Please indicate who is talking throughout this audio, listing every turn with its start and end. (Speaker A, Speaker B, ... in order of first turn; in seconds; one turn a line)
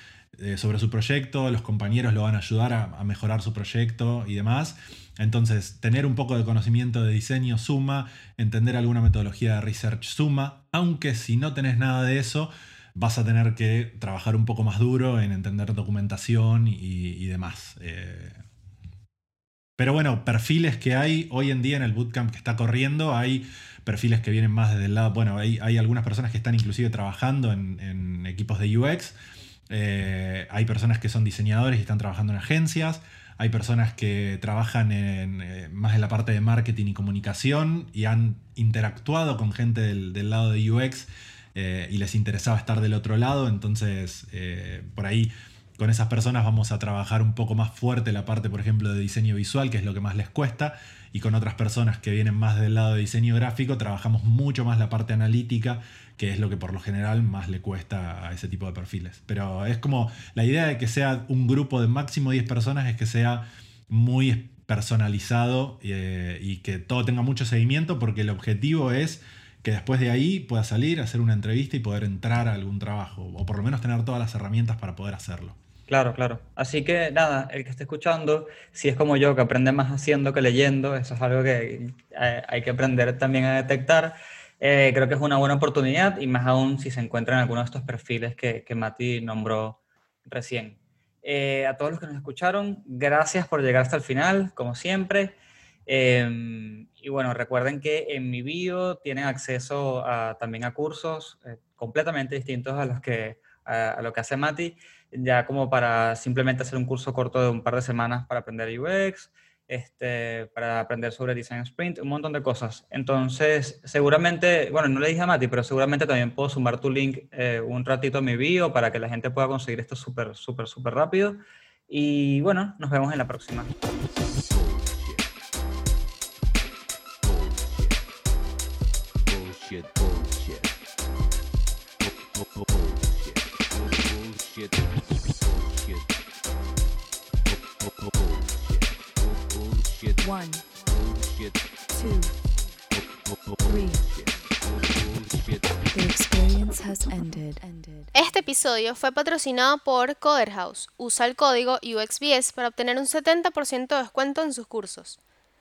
Speaker A: 0.3-18.4
Speaker A: 19.8-29.1
Speaker A: 29.7-75.6
Speaker B: 75.9-123.7
Speaker C: 124.5-125.3
Speaker C: 127.2-128.1
Speaker C: 129.3-130.8
Speaker C: 132.0-136.1
Speaker C: 137.5-141.7
Speaker D: 140.2-140.7
Speaker D: 141.9-142.4
Speaker C: 142.9-145.9
Speaker D: 143.7-144.1
Speaker D: 145.9-148.1
Speaker E: 148.1-155.2